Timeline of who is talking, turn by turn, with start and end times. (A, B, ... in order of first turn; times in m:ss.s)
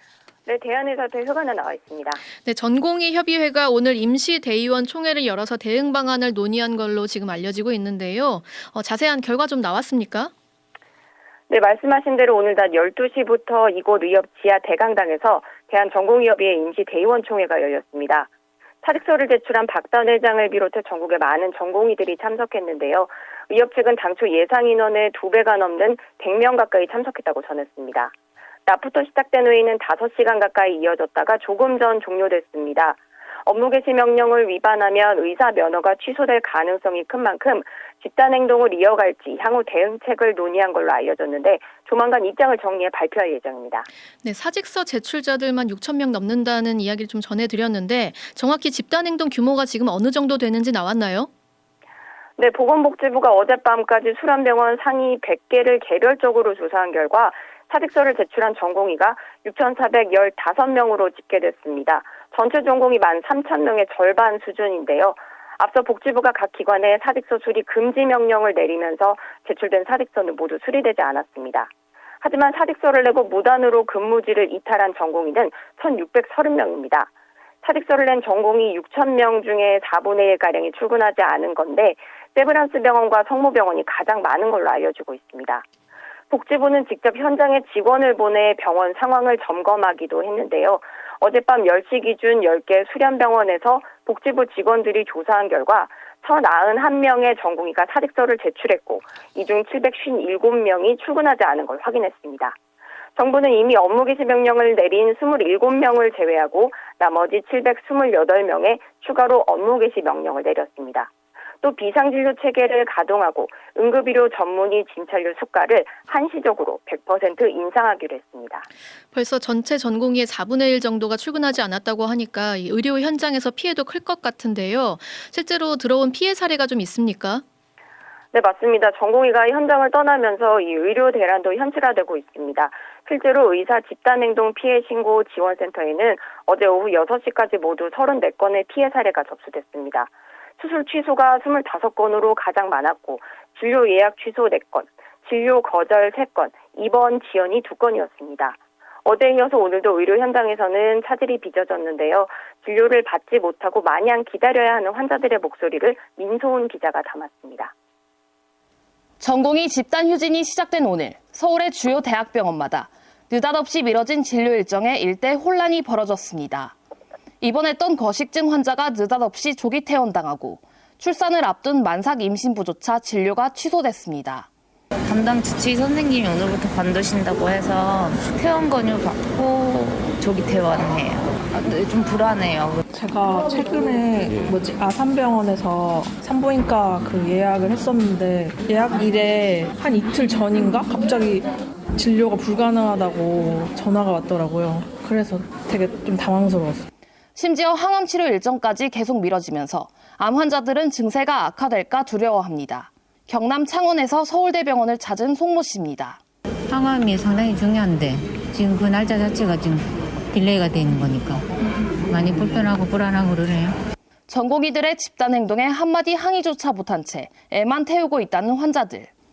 0:00.5-0:02.2 A
0:02.4-0:10.3 B
0:11.5-0:18.3 A
0:18.8-0:28.1 A
0:28.7-0:43.9 A
0:44.2-0:51.3 B
0:52.4-1:11.7 A
1:12.2-1:17.1 A
1:17.6-1:25.6 A
1:26.3-1:42.6 A
1:43.2-1:51.1 A
1:51.6-1:58.7 A
1:59.1-2:07.4 B
2:08.3-2:37.7 A
2:39.2-2:46.8 C
2:47.4-2:54.5 C
2:55.0-3:02.8 D
3:02.9-3:16.9 E
3:17.4-3:26.2 C
3:26.7-3:31.4 F
3:32.1-3:33.8 F
3:34.3-3:39.1 C